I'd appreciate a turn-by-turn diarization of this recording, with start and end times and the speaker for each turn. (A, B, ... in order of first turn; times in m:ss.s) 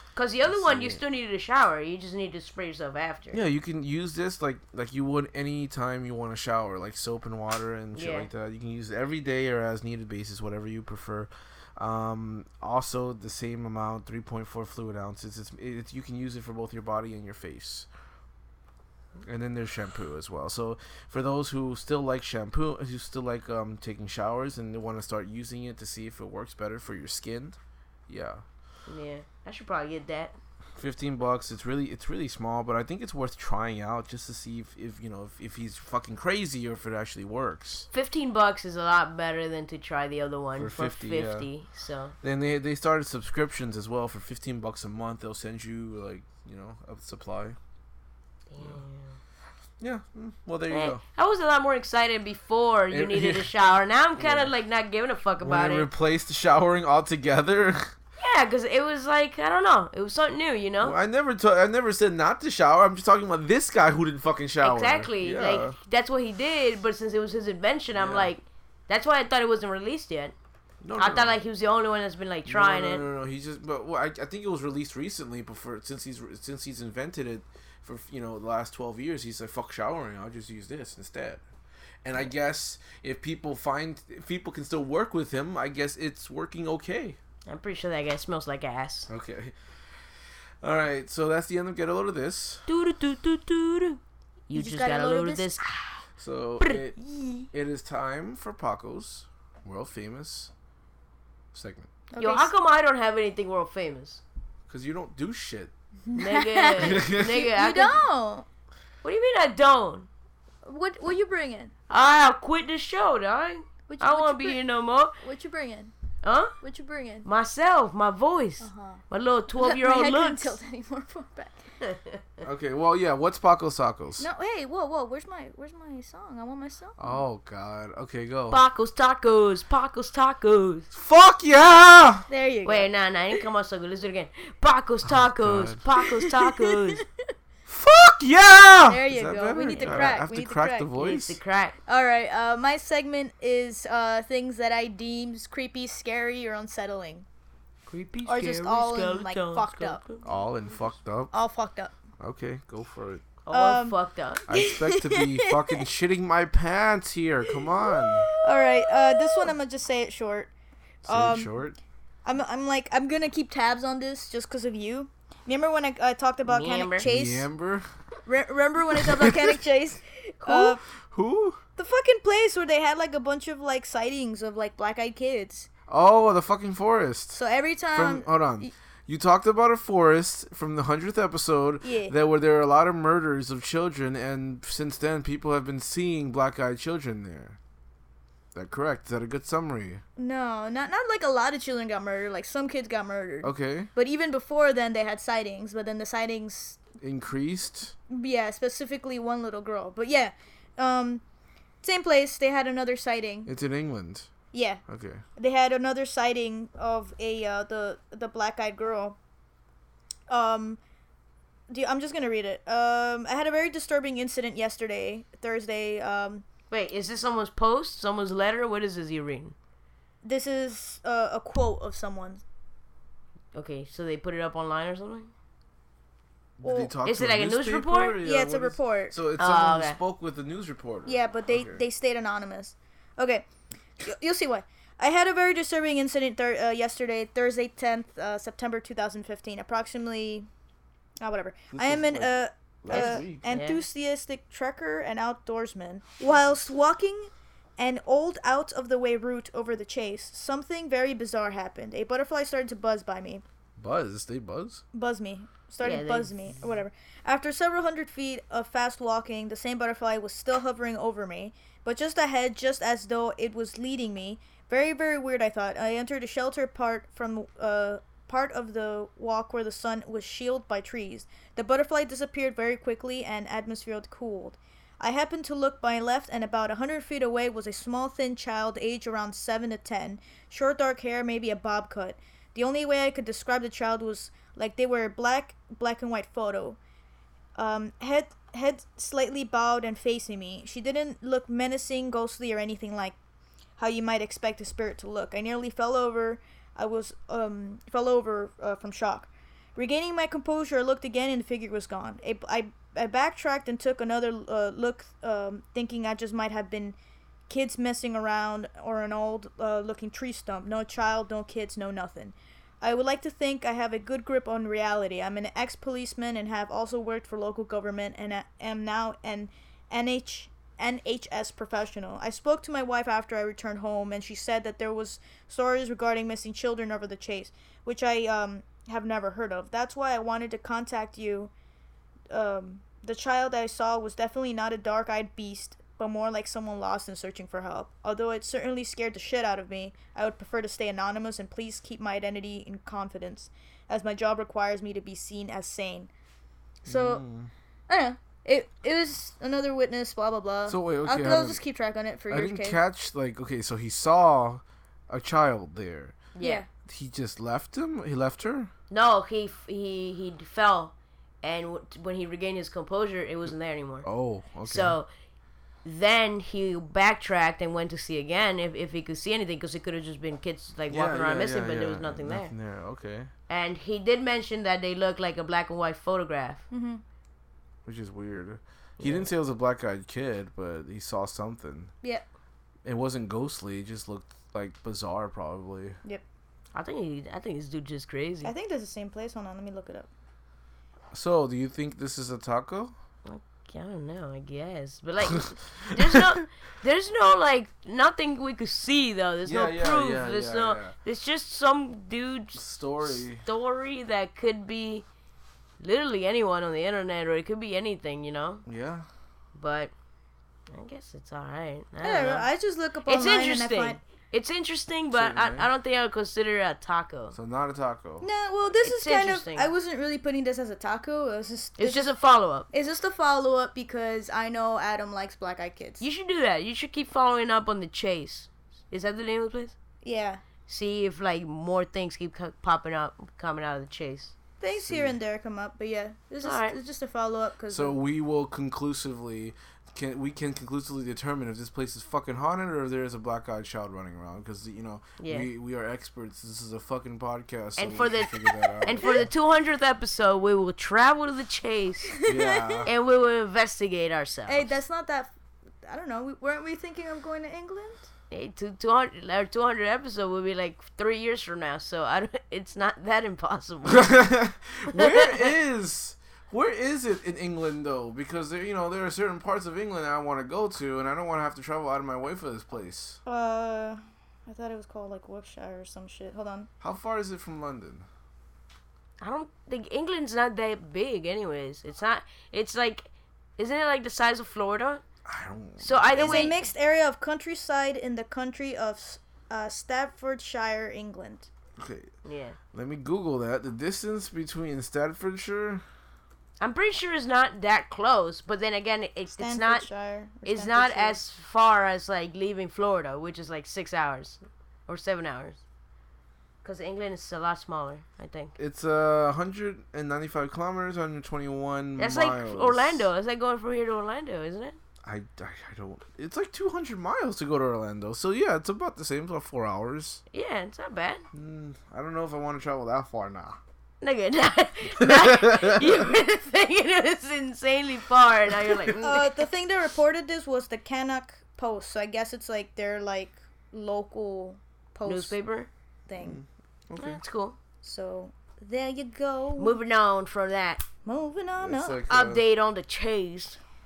0:00.2-0:03.4 A
0:00.4-0:01.0 B
0:03.3-0:17.9 B
0:08.0-0:08.3 A
0:19.2-0:28.4 B
0:28.9-0:30.4 A
0:30.8-0:37.9 B
0:37.9-0:42.1 A
0:40.6-0:41.5 B
0:42.2-0:47.6 B
0:48.5-0:49.2 A
0:49.8-0:51.0 B
0:50.7-0:55.9 A
0:52.9-0:53.5 B
0:54.2-0:54.5 B
0:55.4-0:57.9 B
0:58.2-1:01.0 A
1:00.8-1:05.8 B
1:04.6-1:10.4 A
1:08.0-1:08.3 B
1:10.8-1:11.4 B
1:11.0-1:13.0 A
1:12.5-1:21.4 B
1:22.0-1:27.2 B
1:27.5-1:29.1 A
1:29.1-1:29.6 B
1:30.6-1:32.6 B
1:32.7-1:36.0 A
1:34.5-1:35.5 C
1:36.2-1:37.0 B
1:37.0-1:37.5 C
1:37.5-1:40.5 B
1:41.5-1:41.9 B
1:42.1-1:42.5 C
1:42.2-1:44.2 A
1:44.7-1:45.7 B
1:46.1-1:48.5 C
1:46.2-1:48.0 A
1:46.8-1:47.5 B
1:49.0-1:50.1 A
1:50.6-1:51.7 C
1:51.9-1:55.2 A
1:53.9-1:54.6 C
1:55.2-1:55.9 C
1:56.2-1:56.6 A
1:56.6-1:57.3 C
1:57.2-2:00.6 A
1:58.6-1:59.0 C
1:59.6-2:01.6 C
2:01.9-2:02.2 A
2:02.4-2:04.3 B
2:04.2-2:07.0 C
2:07.0-2:08.6 B
2:08.5-2:10.9 A
2:10.9-2:12.3 B
2:12.3-2:12.9 C
2:12.6-2:17.0 A
2:15.1-2:15.8 B
2:16.0-2:17.0 C
2:17.7-2:21.4 B
2:18.9-2:20.9 C
2:19.6-2:20.1 A
2:21.0-2:21.8 A
2:21.9-2:27.3 C
2:27.9-2:30.2 A
2:28.3-2:30.0 C
2:30.2-2:31.3 B
2:31.3-2:31.9 C
2:32.2-2:33.2 B
2:33.5-2:34.4 A
2:33.5-2:34.0 C
2:34.5-2:38.3 B
2:34.5-2:35.8 C
2:38.4-2:40.5 C
2:41.0-2:41.5 C
2:41.1-2:41.8 B
2:42.2-2:47.5 C
2:46.5-2:47.1 A
2:47.0-2:47.9 B
2:48.3-2:50.8 C
2:49.0-2:49.6 B
2:50.5-2:51.6 B
2:51.8-2:55.7 C
2:55.9-2:57.4 B
2:57.3-2:58.7 C
2:57.9-3:07.6 B
3:01.8-3:02.2 C
3:08.5-3:10.0 B
3:10.2-3:16.8 C
3:13.4-3:13.9 B
3:17.0-3:18.0 B
3:18.1-3:21.2 C
3:21.8-3:23.5 C
3:23.5-3:24.3 B
3:24.5-3:24.8 C
3:24.9-3:25.2 B
3:25.4-3:29.2 C
3:30.3-3:30.8 C
3:31.7-3:36.4 C
3:36.7-3:39.6 A
3:40.2-3:42.4 C
3:43.5-3:45.3 A
3:46.6-3:51.8 B
3:46.6-3:46.9 C
3:47.0-3:48.2 A
3:48.2-3:49.2 C
3:49.4-3:50.0 A
3:51.1-3:53.5 C
3:54.0-4:00.5 C
4:01.2-4:13.4 C
4:01.7-4:03.5 B
4:02.9-4:03.8 A
4:13.8-4:14.8 B
4:14.9-4:46.8 C
4:15.8-4:16.3 A
4:47.6-4:53.2 C
4:53.8-5:07.0 C
5:07.5-5:31.5 C
5:32.3-5:46.1 C
5:46.8-5:47.2 C
5:46.8-5:47.5 B
5:47.9-5:52.8 C
5:50.7-5:51.6 B
5:52.3-5:56.2 B
5:56.4-5:56.6 A
5:56.4-5:56.7 C
5:56.9-5:58.7 B
5:58.9-6:04.1 A
6:04.0-6:05.0 B
6:04.6-6:05.1 A
6:05.8-6:12.5 A
6:10.9-6:13.3 B
6:13.5-6:16.6 A
6:16.7-6:17.0 C
6:17.9-6:21.9 B
6:19.0-6:19.3 A
6:22.8-6:26.0 B
6:26.7-6:28.5 A
6:28.4-6:30.1 C
6:31.1-6:33.0 B
6:33.2-6:45.0 A
6:39.4-6:40.9 B
6:42.6-6:43.4 B
6:45.8-6:48.6 A
6:48.7-6:49.1 B
6:49.6-6:49.9 A
6:50.7-6:52.5 A
6:52.0-6:54.0 C
6:53.1-6:57.4 A
6:55.1-6:55.7 B
6:57.3-6:58.3 B
6:58.2-7:02.1 C
6:58.8-6:59.7 A
7:01.8-7:02.7 A
7:02.7-7:06.0 C
7:06.0-7:09.8 A
7:10.0-7:10.4 C
7:10.7-7:14.3 A
7:14.6-7:18.0 C
7:14.7-7:15.2 B
7:16.4-7:16.8 A
7:17.7-7:29.3 B
7:25.2-7:25.5 A
7:27.8-7:32.1 A
7:28.9-7:29.3 C
7:32.2-7:32.9 C
7:32.2-7:32.9 B
7:32.9-7:34.7 A
7:34.5-7:35.3 C
7:35.8-7:38.0 C
7:38.3-7:44.1 A
7:43.8-7:53.2 B
7:44.9-7:45.5 A
7:53.2-7:56.7 C
7:56.8-7:58.1 B
7:59.2-8:05.0 A
8:05.2-8:06.6 B
8:05.8-8:06.6 A
8:06.2-8:11.5 C
8:11.8-8:12.1 B
8:12.2-8:12.6 A
8:12.7-8:15.8 B
8:16.6-8:19.9 A
8:19.4-8:21.2 C
8:20.5-8:25.6 A
8:26.6-8:28.6 A
8:28.6-8:33.1 B
8:32.0-8:34.8 A
8:35.0-8:40.2 B
8:40.3-8:41.2 A
8:41.3-8:43.6 B
8:44.0-8:49.3 A
8:45.0-8:46.1 B
8:49.0-8:55.4 C
8:55.0-8:55.7 A
8:56.1-8:56.4 C
8:56.2-8:57.2 B
8:57.0-8:57.6 A
8:57.8-8:59.8 C
8:59.6-9:00.8 A
9:01.0-9:02.0 C
9:01.6-9:02.4 B
9:02.1-9:03.6 A